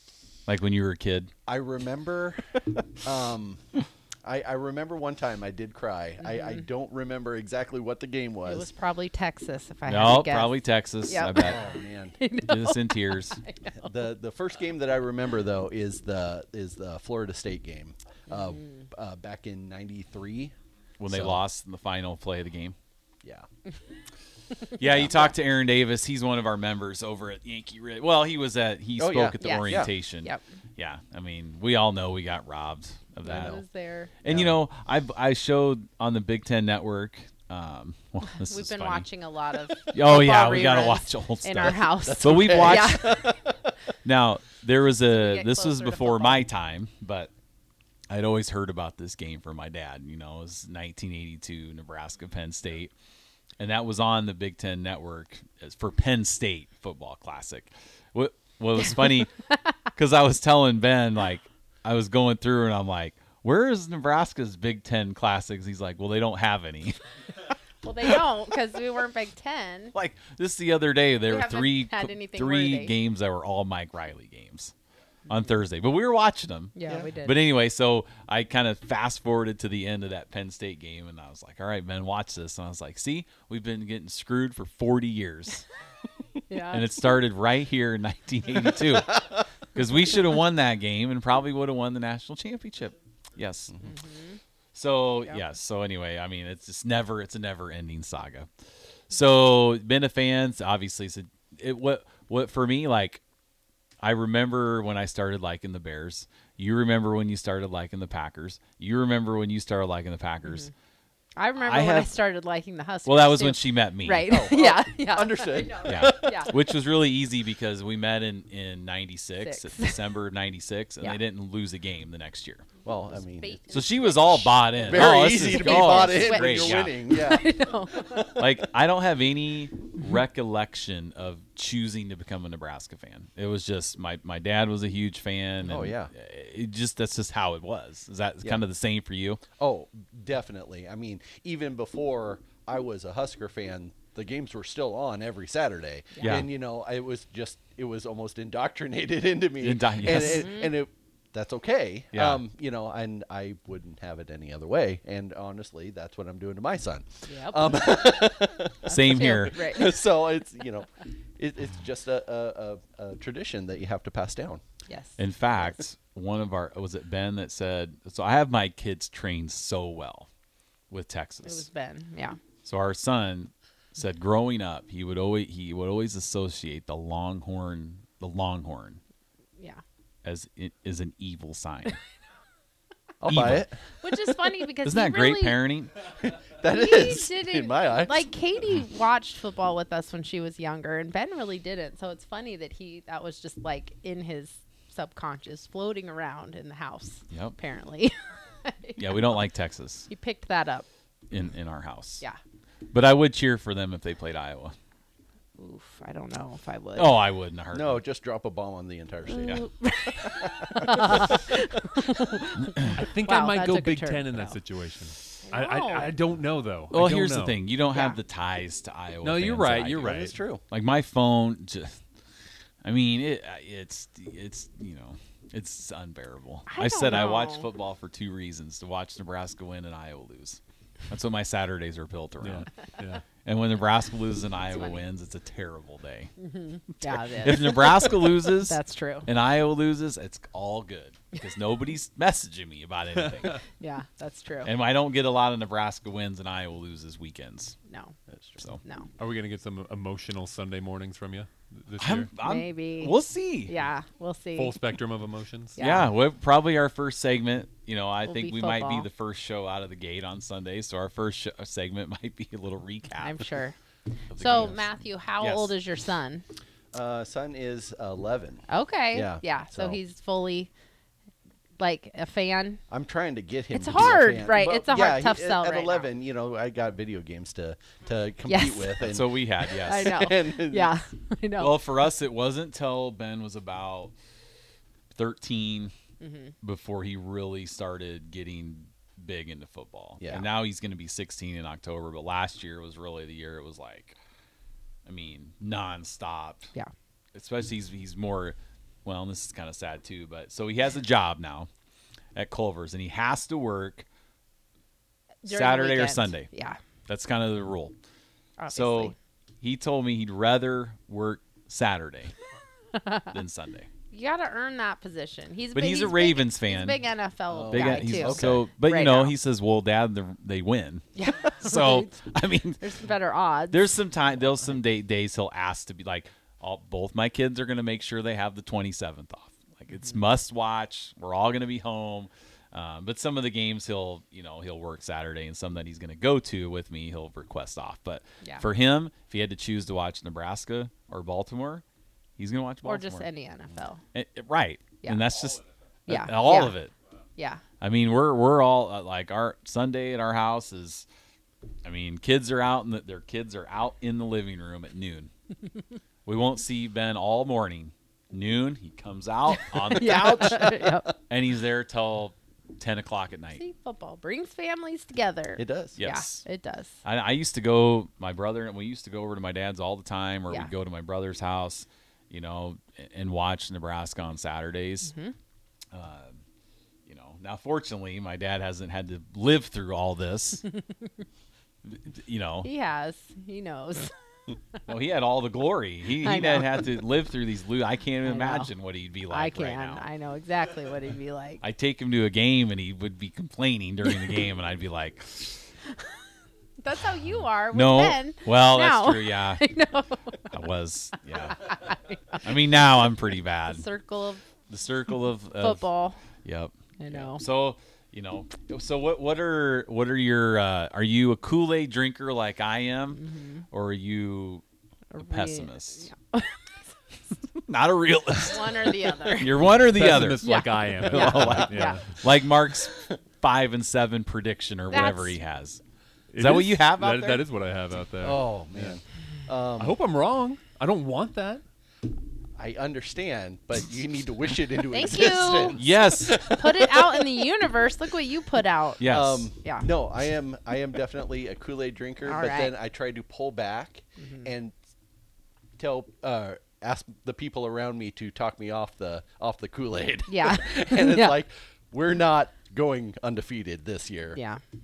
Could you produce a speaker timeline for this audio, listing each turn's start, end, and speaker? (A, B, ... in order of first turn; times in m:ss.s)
0:00.5-0:01.3 A
0:01.5-0:03.6 B
0:04.2-0:08.7 B
0:06.2-0:06.6 C
0:08.4-0:11.6 C
0:09.9-0:11.7 A
0:11.4-0:12.2 B
0:12.2-0:14.1 C
0:12.4-0:13.4 A
0:13.8-0:20.5 B
0:18.3-0:18.8 C
0:21.0-0:22.8 A
0:21.1-0:21.4 B
0:24.8-0:33.6 A
0:29.0-0:29.9 B
0:29.4-0:30.4 C
0:33.2-0:34.1 C
0:33.3-0:33.6 B
0:34.2-0:39.1 A
0:34.3-0:34.6 B
0:38.4-0:43.4 C
0:39.9-0:43.2 A
0:42.0-0:43.6 B
0:44.0-0:47.3 A
0:45.1-0:46.5 C
0:48.1-0:52.9 A
0:53.6-0:59.3 A
0:59.9-1:07.0 A
1:07.8-1:09.9 C
1:09.9-1:14.7 A
1:11.3-1:12.9 C
1:15.3-1:25.7 A
1:16.8-1:17.4 C
1:26.5-1:26.9 C
1:26.7-1:33.8 A
1:33.9-1:34.4 C
1:34.7-1:38.5 A
1:39.1-1:43.2 A
1:44.0-1:50.7 A
1:50.5-1:50.7 C
1:51.4-1:56.6 C
1:51.6-1:52.1 A
1:53.1-1:54.3 A
1:54.3-1:56.6 B
1:55.8-2:02.7 A
1:59.4-2:00.0 C
2:02.8-2:03.6 B
2:03.2-2:08.5 C
2:03.7-2:07.1 A
2:04.8-2:08.2 B
2:08.3-2:19.4 A
2:15.7-2:16.1 B
2:19.6-2:44.6 B
2:26.2-2:26.4 C
2:26.2-2:26.5 A
2:29.6-2:30.5 A
2:30.2-2:30.8 C
2:32.1-2:32.4 A
2:37.3-2:37.8 C
2:38.9-2:39.8 A
2:38.9-2:40.0 C
2:44.9-2:45.8 C
2:45.2-2:50.3 A
2:50.9-2:51.7 A
2:51.4-2:52.4 C
2:52.6-2:59.0 A
2:59.6-2:59.8 C
3:00.2-3:02.0 A
3:03.2-3:03.8 B
3:03.3-3:03.7 A
3:04.0-3:05.6 C
3:04.8-3:05.9 A
3:06.2-3:08.3 B
3:06.7-3:19.4 C
3:17.3-3:17.6 A
3:19.0-3:20.1 A
3:20.1-3:20.9 C
3:21.3-3:22.2 A
3:22.9-3:24.8 A
3:25.6-3:27.3 C
3:27.0-3:28.0 A
3:27.7-3:29.6 B
3:29.3-3:34.6 C
3:29.4-3:29.6 A
3:30.3-3:31.3 B
3:32.8-3:37.6 D
3:35.5-3:36.1 C
3:36.9-3:40.2 A
3:37.9-3:38.2 C
3:39.2-3:40.4 D
3:40.0-3:40.6 B
3:40.7-3:42.0 A
3:42.8-3:52.8 A
3:46.7-3:47.7 C
3:52.4-3:53.3 D
3:53.4-3:56.3 A
3:54.7-3:55.0 C
3:56.4-3:59.3 C
3:57.0-4:03.6 A
4:03.8-4:04.7 C
4:04.6-4:07.8 A
4:07.9-4:08.2 C
4:08.3-4:08.6 B
4:09.2-4:12.3 D
4:12.0-4:13.7 A
4:12.4-4:14.8 C
4:14.6-4:15.8 D
4:15.8-4:16.1 C
4:15.8-4:23.6 A
4:18.3-4:19.1 C
4:23.2-4:23.8 C
4:24.3-4:24.8 A
4:24.4-4:26.4 C
4:25.4-4:25.8 A
4:26.9-4:30.0 B
4:28.7-4:30.7 C
4:31.8-4:32.8 C
4:32.9-4:41.0 B
4:33.7-4:36.1 C
4:38.5-4:39.0 C
4:39.0-4:40.2 A
4:39.7-4:41.8 C
4:41.6-4:44.2 A
4:45.1-4:45.9 A
4:46.2-4:46.5 C
4:46.6-4:54.2 A
4:50.2-4:50.5 B
4:55.1-4:56.7 A
4:57.3-5:01.7 A
5:02.4-5:04.1 A
5:05.4-5:06.8 C
5:05.4-5:06.5 A
5:07.1-5:08.0 A
5:08.6-5:09.1 C
5:08.7-5:12.3 A
5:13.3-5:13.9 A
5:14.1-5:19.4 C
5:15.7-5:17.0 A
5:17.5-5:18.6 B
5:17.7-5:21.1 A
5:21.2-5:22.2 C
5:21.6-5:22.8 A
5:22.8-5:24.0 C
5:23.7-5:41.8 A
5:42.4-5:43.3 A
5:42.8-5:44.0 C
5:44.1-5:46.9 A
5:45.0-5:45.3 C
5:46.1-5:46.8 C
5:47.4-5:47.6 C
5:47.8-5:51.1 A
5:51.8-5:55.3 A
5:56.3-6:03.6 A
5:59.7-6:01.1 C
6:03.6-6:07.0 C
6:05.6-6:06.0 B
6:06.0-6:06.4 A
6:07.0-6:15.1 A
6:15.1-6:15.3 C
6:15.9-6:16.4 A
6:17.1-6:20.6 A
6:21.8-6:22.7 A
6:22.6-6:24.1 C
6:24.9-6:30.1 A
6:26.2-6:27.0 C
6:28.2-6:28.7 C
6:29.3-6:31.6 C
6:31.6-6:35.7 A
6:36.8-6:40.6 C
6:37.7-6:39.6 A
6:40.5-6:41.8 A
6:41.4-6:42.6 C
6:42.4-6:43.9 A
6:43.7-6:44.4 C
6:44.7-6:45.9 A
6:45.5-6:46.2 C
6:46.4-6:54.6 A
6:47.0-6:47.4 C
6:53.2-6:53.6 C
6:55.1-6:56.6 C
6:55.2-6:56.1 A
6:57.6-7:05.8 A
6:58.4-6:59.7 C
6:59.9-7:02.2 D
7:00.4-7:02.0 C
7:04.9-7:05.4 C
7:06.3-7:09.0 D
7:06.4-7:07.5 A
7:08.2-7:10.0 B
7:09.8-7:11.6 D
7:12.6-7:17.3 B
7:14.9-7:19.1 C
7:15.7-7:16.5 A
7:19.0-7:19.5 A
7:19.0-7:24.7 B
7:22.2-7:22.7 C
7:24.2-7:24.5 C
7:25.8-7:34.4 B
7:30.3-7:31.4 C
7:34.3-7:34.6 C